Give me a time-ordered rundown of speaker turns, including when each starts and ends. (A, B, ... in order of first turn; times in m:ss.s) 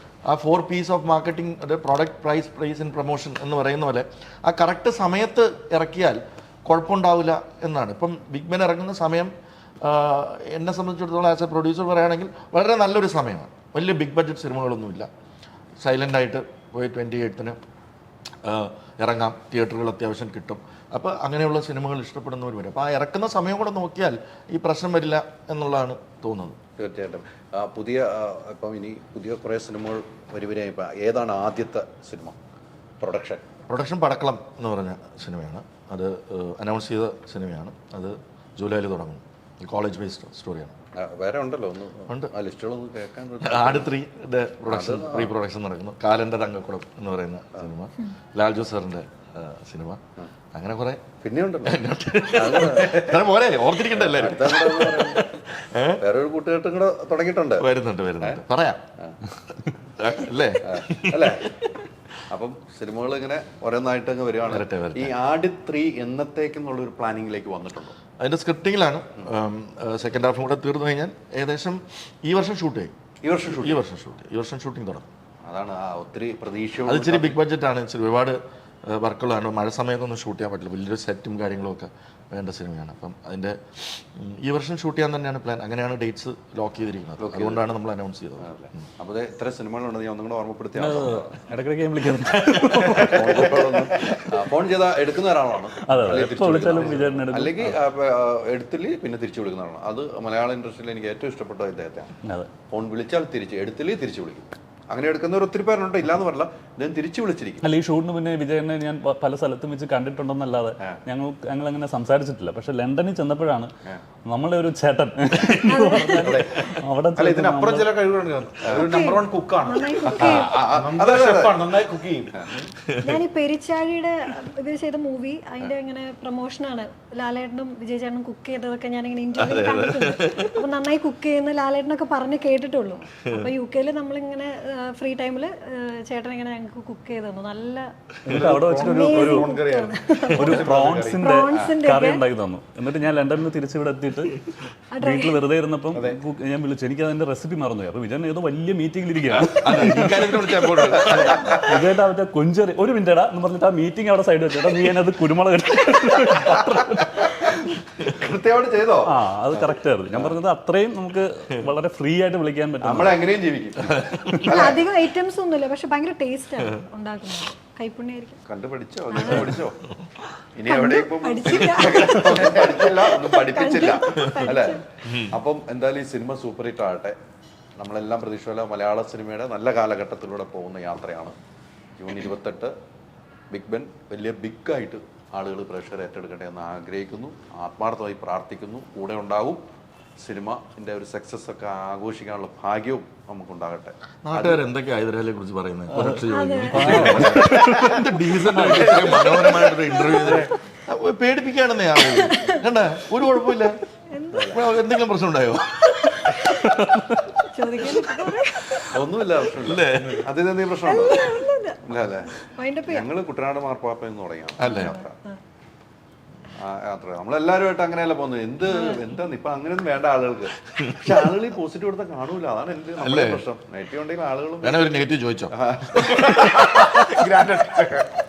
0:00.3-0:09.3 A
0:09.8-0:15.1 A
0:15.8-0:17.6 A
0:18.4-0:26.6 A
0:26.8-0:32.4 B
0:33.0-0:33.4 B
0:33.7-0:40.7 A
0:41.0-0:43.9 B
0:43.4-0:50.0 A
0:44.7-0:45.3 B
0:50.5-0:51.1 A
0:51.2-0:53.2 B
0:51.6-0:56.0 A
0:53.9-0:55.4 B
0:56.0-0:57.7 B
0:57.6-0:58.8 A
1:00.0-1:01.7 A
1:00.6-1:01.6 B
1:02.3-1:08.0 B
1:04.5-1:05.1 A
1:08.2-1:12.9 A
1:13.2-1:13.8 B
1:13.5-1:15.1 A
1:15.5-1:17.4 B
1:16.8-1:28.5 A
1:27.2-1:27.7 B
1:28.4-1:31.2 B
1:30.8-1:34.2 C
1:33.0-1:42.1 B
1:35.8-1:37.8 C
1:42.2-1:42.5 C
1:42.7-1:47.6 B
1:47.6-1:53.7 C
1:54.3-1:57.9 C
1:55.6-1:56.3 D
1:56.0-1:56.7 B
1:57.1-2:02.4 E
1:58.8-2:00.6 D
2:00.1-2:01.8 B
2:02.4-2:02.7 B
2:02.9-2:03.2 A
2:03.0-2:17.9 D
2:09.4-2:10.6 A
2:18.3-2:19.5 C
2:18.3-2:21.3 E
2:18.8-2:22.2 D
2:20.3-2:37.6 C
2:21.5-2:21.7 B
2:24.9-2:25.4 D
2:29.6-2:31.6 A
2:31.1-2:31.6 B
2:37.4-2:40.4 B
2:39.1-2:43.2 C
2:42.8-2:44.8 B
2:43.9-2:44.4 C
2:44.4-2:48.4 D
2:48.5-2:49.8 B
2:49.1-2:49.6 D
2:50.6-2:57.2 B
2:50.6-2:54.8 D
2:54.1-2:54.5 A
2:55.0-2:55.3 A
2:57.8-3:01.4 B
3:02.0-3:02.7 B
3:03.5-3:09.6 B
3:10.2-3:14.6 B
3:14.2-3:23.8 A
3:15.9-3:16.2 C
3:16.3-3:18.0 D
3:16.7-3:17.9 C
3:18.5-3:19.0 C
3:19.1-3:20.4 D
3:22.0-3:22.6 D
3:24.1-3:24.5 D
3:24.3-3:24.6 B
3:24.5-3:25.7 A
3:25.9-3:26.7 D
3:26.6-3:27.2 C
3:27.5-3:29.0 D
3:28.9-3:31.3 B
3:29.6-3:30.3 A
3:30.9-3:31.8 D
3:31.8-3:35.2 B
3:32.4-3:33.1 D
3:34.6-3:35.0 A
3:34.6-3:35.4 D
3:36.6-3:46.5 B
3:38.7-3:39.0 D
3:40.8-3:41.2 A
3:43.0-3:43.4 A
3:44.6-3:47.3 A
3:46.1-3:48.1 E